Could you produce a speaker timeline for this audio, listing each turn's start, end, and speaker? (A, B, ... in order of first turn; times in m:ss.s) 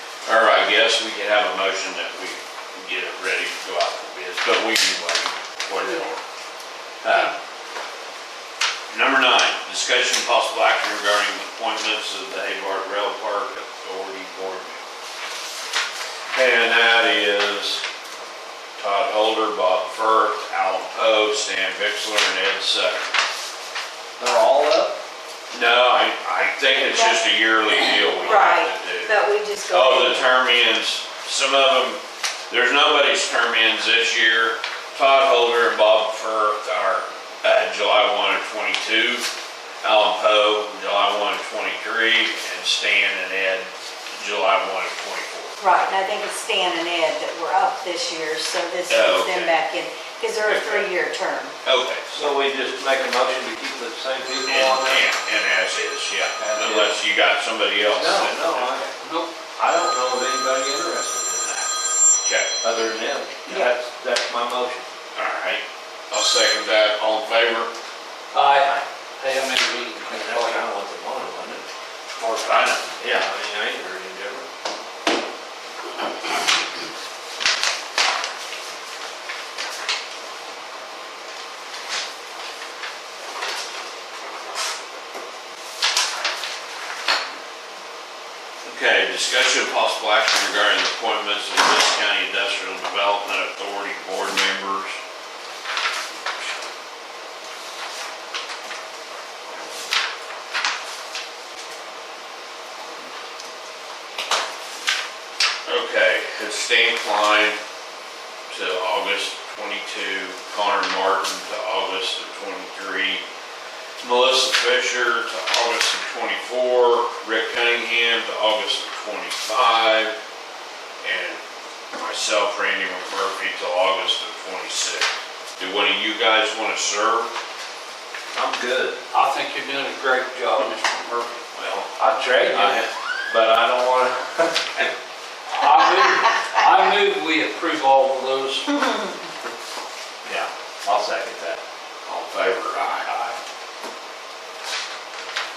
0:00.2-0:06.2 A
0:05.8-0:06.2 B
0:07.0-0:07.3 A
0:08.9-0:14.8 A
0:16.3-0:17.8 A
0:18.8-0:23.1 A
0:24.2-0:25.0 C
0:25.5-0:29.1 A
0:26.7-0:30.3 B
0:29.7-0:39.3 A
0:39.8-0:45.6 A
0:45.6-0:51.5 B
0:48.9-0:49.5 A
0:50.5-0:50.8 C
0:51.6-0:52.3 A
0:52.1-0:55.0 C
0:54.4-0:58.9 A
0:56.4-0:57.0 C
0:57.9-0:58.9 C
0:59.0-0:59.3 D
0:59.6-1:01.7 C
1:02.2-1:02.5 A
1:02.6-1:04.9 C
1:05.1-1:07.7 A
1:08.3-1:10.7 D
1:10.0-1:11.6 C
1:12.2-1:13.2 A
1:13.0-1:14.4 C
1:28.6-1:35.0 A
1:45.6-1:47.6 A
1:48.5-1:53.2 A
1:54.0-2:00.2 A
2:01.0-2:01.4 A
2:01.9-2:07.3 A
2:08.3-2:09.0 C
2:09.1-2:11.4 D
2:11.5-2:11.9 A
2:12.0-2:14.8 C
2:12.5-2:12.9 A
2:15.5-2:18.7 D
2:20.2-2:21.6 C
2:22.0-2:23.1 A
2:22.9-2:23.4 D